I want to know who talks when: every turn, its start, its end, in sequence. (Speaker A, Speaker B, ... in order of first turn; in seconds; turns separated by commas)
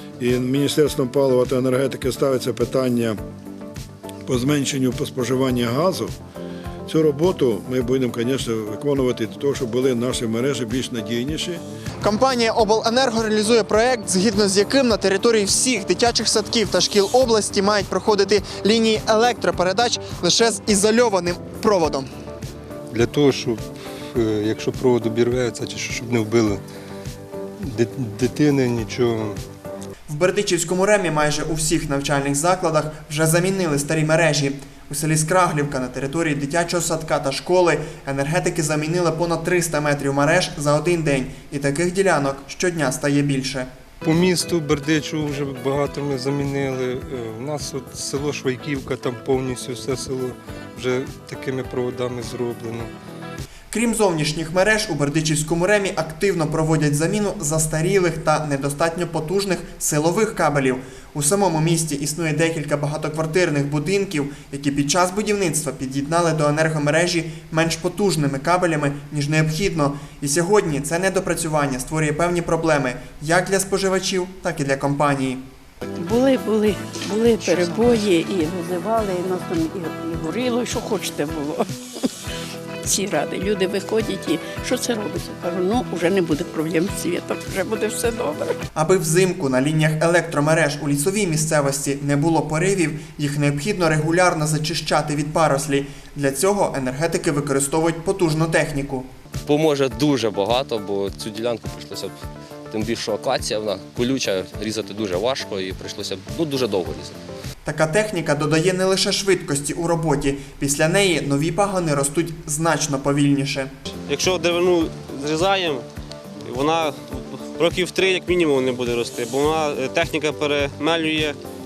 Speaker A: 0.2-3.2, Speaker A: 4.3-6.1, Speaker A: 6.9-11.6, Speaker B: 12.0-22.1, Speaker C: 22.9-23.6, Speaker C: 24.1-26.6, Speaker C: 27.6-29.4, Speaker B: 30.1-43.7, Speaker C: 44.0-52.9, Speaker B: 53.7-75.4, Speaker D: 76.0-82.1, Speaker D: 82.8-88.5, Speaker B: 88.8-99.1, Speaker E: 99.5-102.1, Speaker E: 102.7-107.2, Speaker B: 107.7-113.7, Speaker F: 114.1-115.8, Speaker F: 116.5-121.4